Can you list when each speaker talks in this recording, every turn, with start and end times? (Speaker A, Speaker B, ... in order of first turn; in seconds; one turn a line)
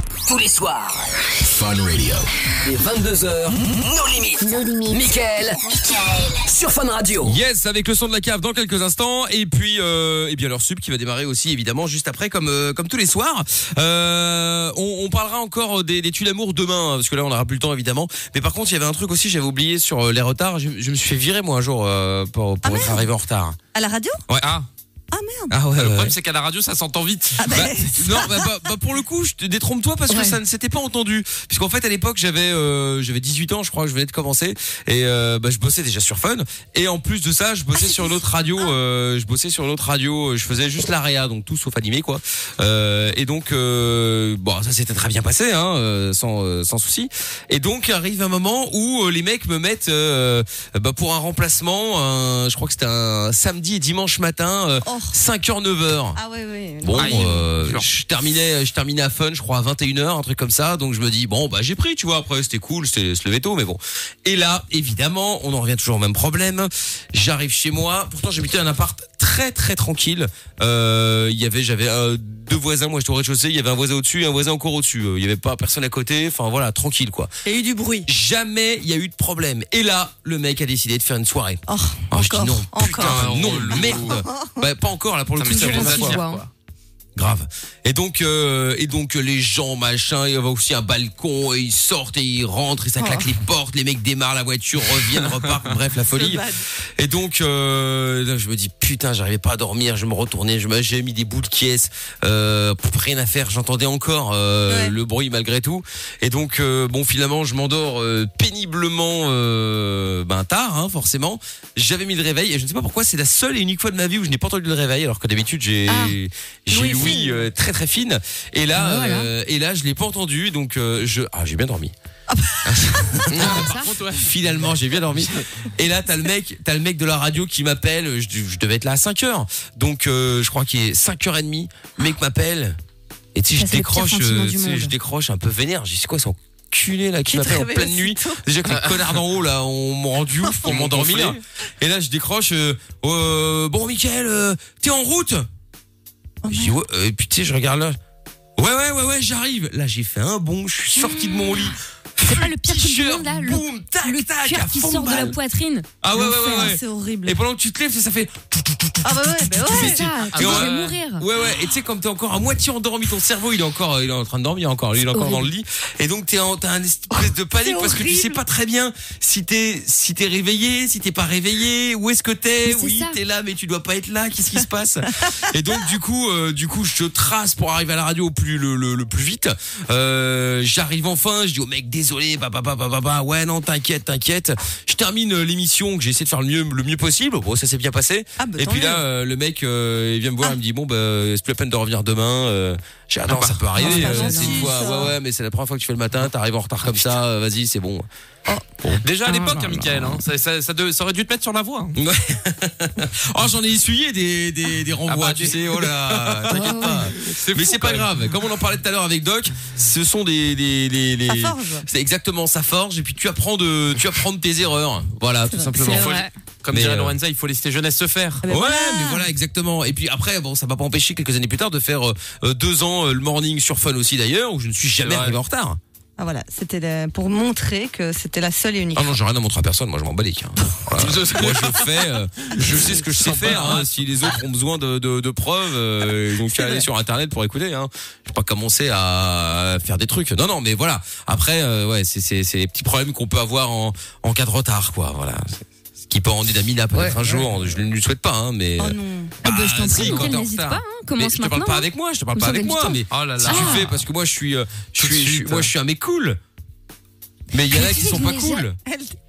Speaker A: 0.3-7.4
Speaker B: 7.2-23.6
Speaker C: 22.6-23.1
Speaker C: 23.8-24.2
Speaker D: 24.4-24.7
Speaker C: 25.1-25.5
Speaker B: 25.5-26.2
Speaker D: 25.8-27.7
Speaker C: 27.4-28.5
Speaker B: 27.5-56.2
Speaker E: 30.1-30.4
Speaker C: 37.8-38.7
Speaker C: 54.8-55.2
Speaker C: 56.1-57.4
Speaker B: 56.8-77.3
Speaker D: 56.9-57.9
Speaker C: 77.5-78.1
Speaker B: 78.1-86.2
Speaker C: 81.7-84.6
Speaker D: 82.9-84.2
Speaker D: 85.4-86.5
Speaker E: 85.5-86.5
Speaker B: 87.2-96.5
Speaker C: 93.0-93.3
Speaker C: 96.1-96.6
Speaker B: 97.0-121.9
Speaker C: 104.7-105.0
Speaker E: 115.9-116.2
Speaker C: 116.7-117.4
Speaker E: 118.7-119.3
Speaker C: 122.3-123.1
Speaker B: 122.7-132.8
Speaker D: 123.3-125.4
Speaker E: 123.4-123.9
Speaker B: 133.3-145.5
Speaker E: 133.6-134.9
Speaker C: 137.3-138.4
Speaker C: 140.4-140.8
Speaker D: 140.7-141.4
Speaker C: 146.4-146.8
Speaker B: 146.5-148.0
Speaker B: 148.6-155.4
Speaker E: 151.1-151.6
Speaker E: 152.2-155.9
Speaker B: 156.0-198.1
Speaker C: 156.1-157.4
Speaker C: 159.0-160.0
Speaker E: 159.7-161.2
Speaker D: 160.3-160.9
Speaker E: 165.1-165.5
Speaker C: 167.6-168.4
Speaker E: 172.7-173.2
Speaker C: 188.4-189.0
Speaker D: 193.3-194.0
Speaker E: 193.8-194.7
Speaker C: 193.8-195.2
Speaker B: 198.8-200.2
Speaker D: 199.0-202.0
Speaker B: 201.9-217.2
Speaker D: 205.1-208.1
Speaker E: 206.5-207.1
Speaker C: 211.3-211.9
Speaker C: 215.5-216.1
Speaker E: 215.9-216.3
Speaker D: 215.9-218.4
Speaker C: 218.4-219.3
Speaker B: 218.5-225.8
Speaker D: 225.0-225.4
Speaker C: 226.2-229.2
Speaker B: 228.9-256.4
Speaker D: 230.9-234.1
Speaker D: 246.9-247.6
Speaker C: 248.8-249.3
Speaker E: 249.4-253.8
Speaker D: 249.9-250.3
Speaker D: 253.1-254.1
Speaker D: 255.0-255.7
Speaker B: 257.5-258.8
Speaker E: 257.6-258.6
Speaker C: 258.9-259.2